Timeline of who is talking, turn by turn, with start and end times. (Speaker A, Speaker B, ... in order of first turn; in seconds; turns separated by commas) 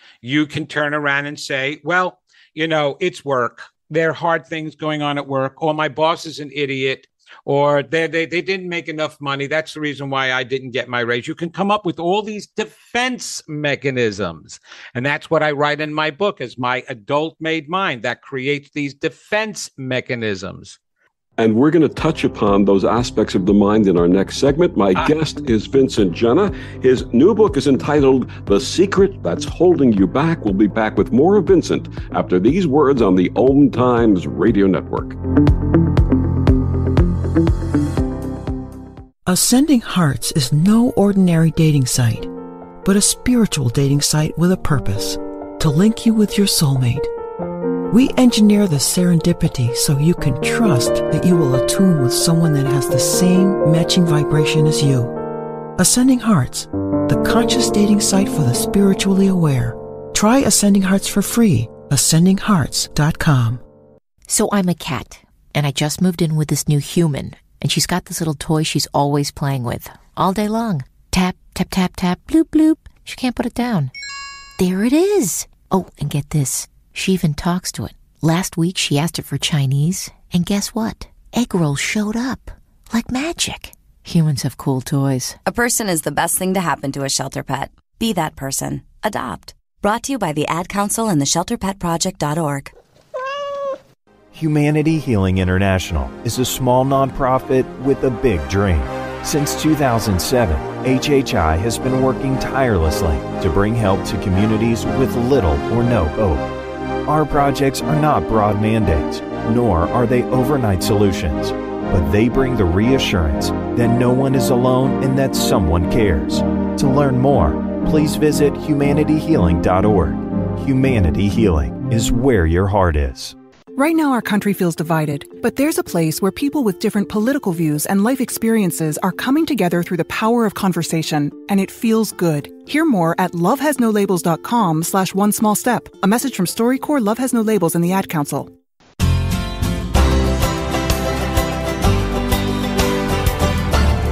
Speaker A: 0.2-20.8, Speaker B: 21.4-35.2, Speaker C: 39.3-42.3, Speaker C: 42.8-47.1, Speaker C: 47.9-55.2, Speaker C: 55.8-63.6, Speaker D: 64.3-73.9, Speaker D: 74.6-85.4, Speaker E: 85.5-92.7, Speaker F: 94.3-106.5, Speaker F: 107.1-123.4, Speaker G: 123.8-138.5